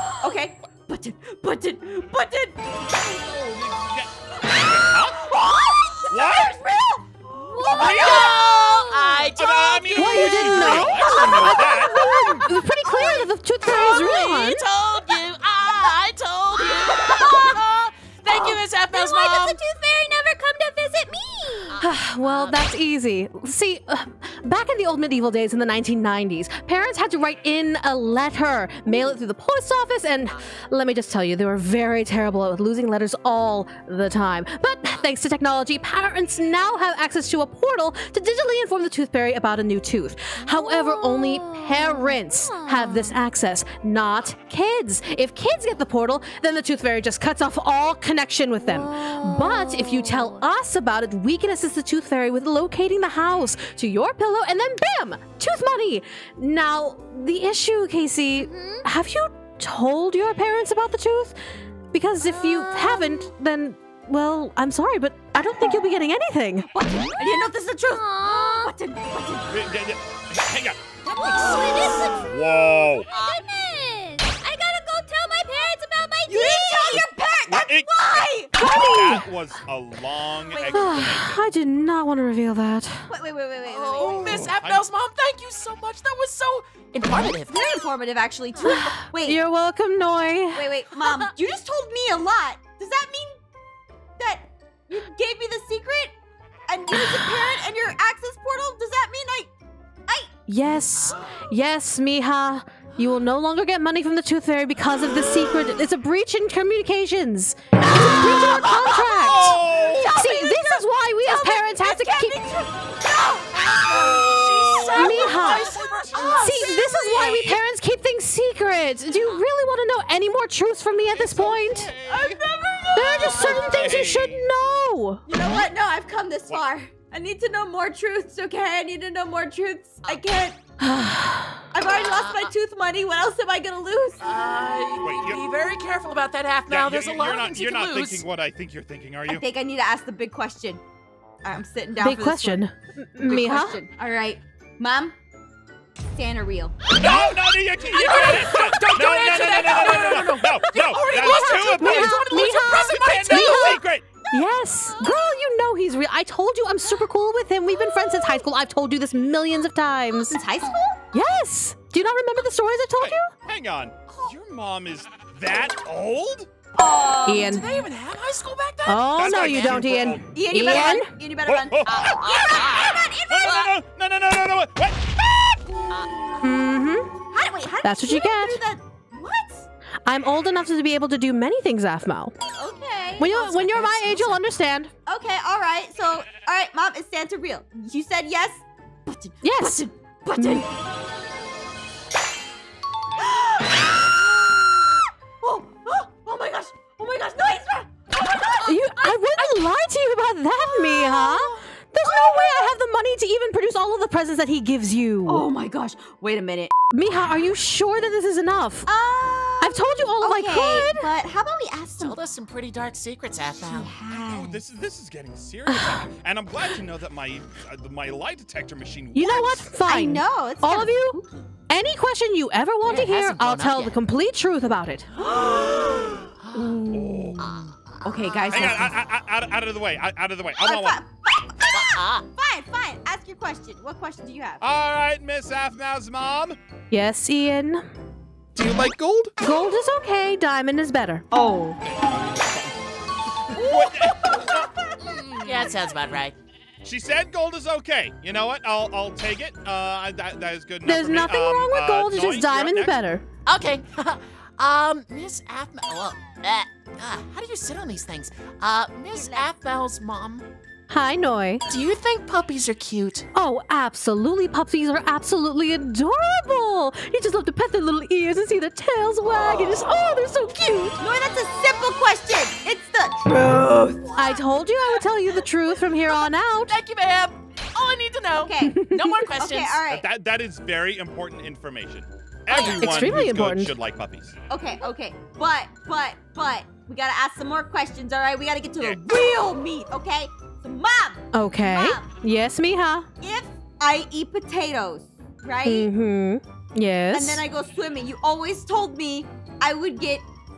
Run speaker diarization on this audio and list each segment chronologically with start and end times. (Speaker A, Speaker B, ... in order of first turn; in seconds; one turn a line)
Speaker A: 0.2-2.9
Speaker B: 2.9-5.2
Speaker A: 4.4-9.2
Speaker B: 6.1-6.5
Speaker C: 7.7-11.3
Speaker B: 7.8-8.3
Speaker B: 9.3-12.0
Speaker D: 10.0-14.6
Speaker A: 10.5-13.2
Speaker E: 12.0-12.6
Speaker C: 13.7-19.6
Speaker A: 16.6-17.5
Speaker E: 17.1-17.5
Speaker E: 18.9-21.8
Speaker C: 21.7-22.6
Speaker D: 21.8-61.4
Speaker E: 40.5-43.2
Speaker E: 48.7-50.4
Speaker E: 58.4-58.9
Speaker D: 61.9-66.7
Speaker E: 62.4-63.2
Speaker A: 66.7-69.7
Speaker E: 67.9-68.7
Speaker B: 69.5-70.8
Speaker A: 71.0-72.3
Speaker E: 71.2-72.3
Speaker B: 72.1-73.1
Speaker E: 73.1-77.1
Speaker C: 73.1-73.4
Speaker A: 76.3-78.6
Speaker B: 76.9-81.4
Speaker D: 78.6-79.3
Speaker A: 80.5-81.0
Speaker D: 80.7-83.1
Speaker A: 83.1-84.4
Speaker C: 83.6-87.7
Speaker B: 84.0-84.9
Speaker A: 87.5-89.4
Speaker D: 88.6-90.7
Speaker A: 90.5-93.4
Speaker A: 94.2-96.2
Speaker A: 96.7-99.5
Speaker D: 100.5-112.4
Speaker C: 101.0-101.4
Speaker A: 108.0-114.2
Speaker B: 109.2-110.2
Speaker C: 113.6-117.4
Speaker B: 113.9-117.4
Speaker A: 114.9-117.2
Speaker D: 115.0-115.7
Speaker D: 116.3-121.9
Speaker B: 121.1-122.4
Speaker A: 122.1-124.1
Speaker D: 123.0-125.2
Speaker B: 123.0-124.5
Speaker A: 125.3-130.6
Speaker D: 130.8-131.6
Speaker A: 131.7-134.2
Speaker C: 131.9-132.5
Speaker C: 134.2-138.2
Speaker B: 135.0-135.5
Speaker B: 136.7-139.4
Speaker A: 139.3-140.8
Speaker A: 141.4-142.6
Speaker D: 142.0-143.8
Speaker A: 143.2-145.1
Speaker A: 146.1-146.8
Speaker C: 146.9-153.8
Speaker B: 147.0-154.1
Speaker D: 151.1-160.4
Speaker A: 154.2-155.1
Speaker A: 160.2-161.0
Speaker D: 161.1-163.3
Speaker B: 163.0-166.5
Speaker A: 166.8-167.7
Speaker D: 167.3-167.7
Speaker C: 167.3-169.9
Speaker D: 168.9-171.1
Speaker B: 169.1-170.9
Speaker A: 170.3-173.7
Speaker B: 171.5-172.2
Speaker C: 171.9-173.7
Speaker B: 173.3-175.9
Speaker D: 176.4-177.1
Speaker A: 177.3-179.7
Speaker D: 177.8-178.6
Speaker D: 180.1-182.3
Speaker A: 182.6-184.4
Speaker D: 183.2-184.9
Speaker A: 185.1-190.7
Speaker D: 189.4-189.8
Speaker D: 190.4-190.7
Speaker A: 193.2-198.8
Speaker D: 198.7-205.5
Speaker C: 198.7-199.6
Speaker C: 200.9-201.7
Speaker A: 202.0-202.8
Speaker A: 205.3-206.7
Speaker D: 206.9-208.9
Speaker A: 208.9-212.2
Speaker D: 209.6-211.1
Speaker C: 212.0-213.9
Speaker A: 213.6-214.6
Speaker B: 214.1-219.7
Speaker D: 215.7-216.0
Speaker D: 219.1-221.2
Speaker A: 219.8-221.5
Speaker D: 221.7-225.1
Speaker C: 222.9-224.0
Speaker A: 225.2-228.9
Speaker C: 226.5-226.8
Speaker B: 226.9-227.5
Speaker C: 227.4-228.9
Speaker B: 228.5-231.0
Speaker A: 230.6-234.6
Speaker C: 231.7-232.2
Speaker B: 234.6-236.6
Speaker D: 236.9-237.8
Speaker B: 238.6-239.3
Speaker D: 239.4-241.2
Speaker A: 241.3-241.8
Speaker B: 241.8-242.8
Speaker B: 243.5-245.4
Speaker A: 243.5-245.7
Speaker C: 245.3-246.4
Speaker B: 246.8-253.0
Speaker D: 250.8-253.2
Speaker C: 253.5-260.5
Speaker A: 259.1-259.5
Speaker D: 260.9-261.6
Speaker C: 261.7-263.2
Speaker D: 263.3-271.0
Speaker A: 271.0-273.8
Speaker C: 273.5-274.4
Speaker D: 274.1-276.8
Speaker C: 276.1-279.8
Speaker A: 278.4-278.8
Speaker D: 278.6-279.3
Speaker A: 279.4-280.1
Speaker B: 279.9-284.4
Speaker C: 282.5-283.1
Speaker D: 282.7-283.7
Speaker A: 284.5-292.1
Speaker D: 291.3-293.1
Speaker A: 293.2-295.9
Speaker D: 295.6-297.4
Speaker A: 297.1-300.2